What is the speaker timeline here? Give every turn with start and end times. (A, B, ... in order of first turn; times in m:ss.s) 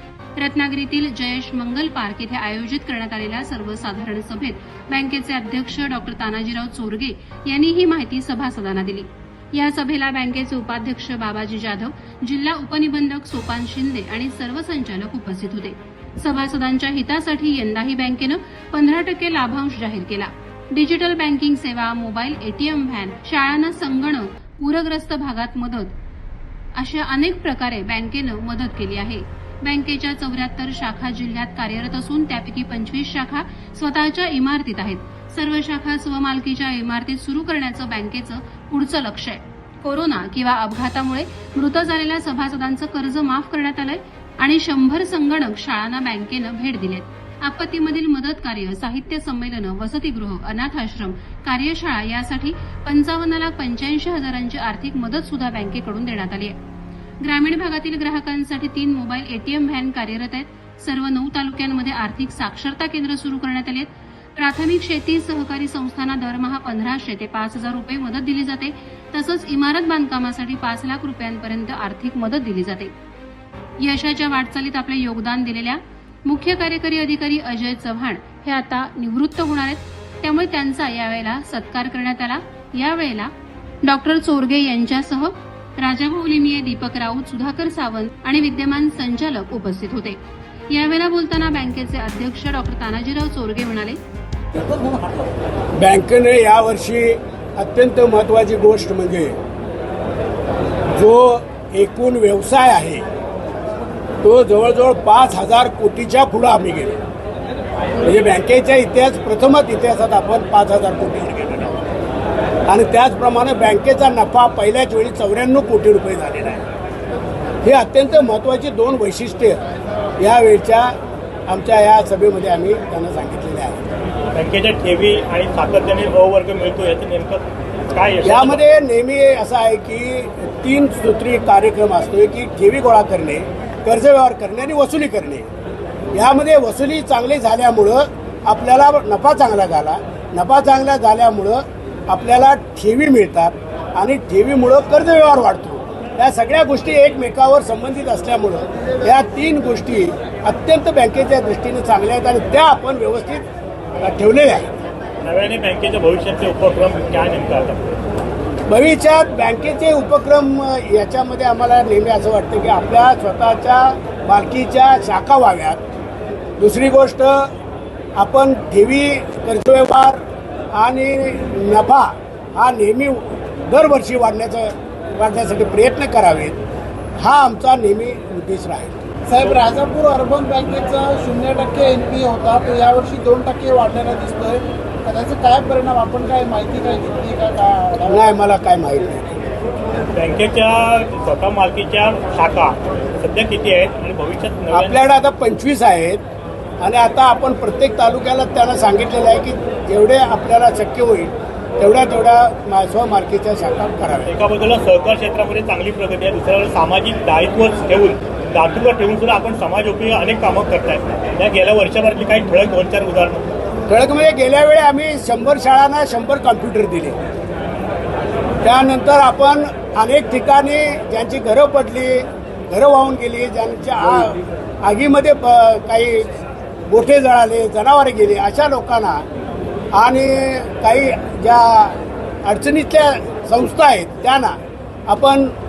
0:00.4-0:25.9 A
0:26.8-0:56.5 A
0:57.2-1:12.9 A
1:13.8-1:23.3 A
1:23.8-1:30.2 A
1:30.7-1:34.0 A
1:35.8-1:39.4 B
1:40.9-1:43.0 B
1:44.2-1:47.0 B
1:48.0-1:51.8 B
1:52.7-1:56.6 B
1:57.6-1:59.6 B
2:00.2-2:00.9 B
2:01.5-2:03.8 B
2:04.3-2:08.6 C
2:08.2-2:15.5 B
2:16.1-2:33.4 B
2:34.0-2:34.7 B
2:35.2-2:37.9 C
2:38.7-2:45.8 B
2:46.6-2:47.5 B
2:48.2-2:56.6 B
2:57.2-2:59.0 B
2:59.3-3:08.3 D
3:08.1-3:09.3 B
3:10.1-3:15.0 C
3:14.7-3:16.2 B
3:16.8-3:24.3 B
3:24.2-3:33.5 C
3:33.9-3:37.2 B
3:38.6-3:46.3 B
3:46.9-3:49.2 B
3:49.9-3:54.6 B
3:55.1-3:55.5 B